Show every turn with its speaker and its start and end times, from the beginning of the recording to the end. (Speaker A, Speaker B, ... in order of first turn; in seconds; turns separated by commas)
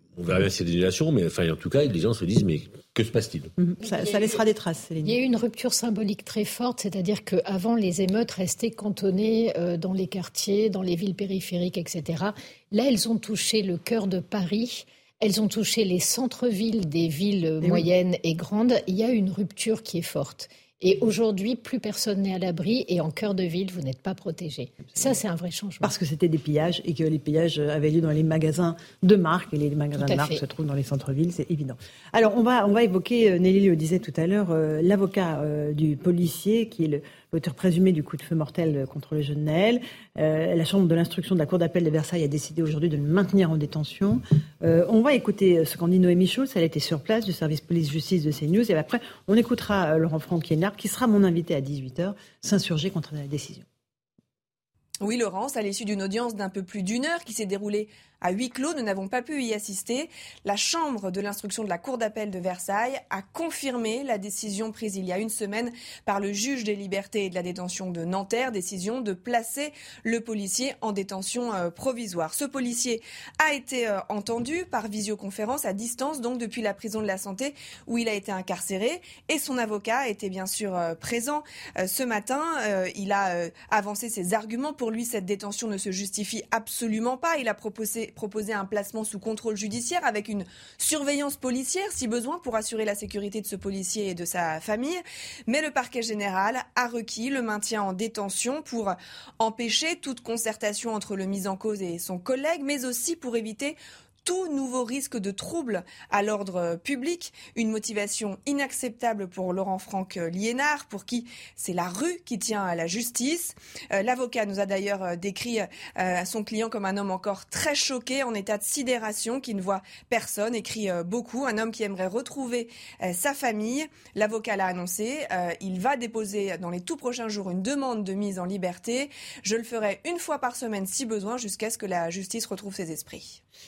Speaker A: 0.2-3.5, Speaker B: 3.6-5.2, Speaker C: 3.8-4.4, Speaker C: 5.0-25.9, Speaker B: 17.6-17.9, Speaker B: 25.8-53.6, Speaker C: 30.0-30.4, Speaker D: 55.0-133.4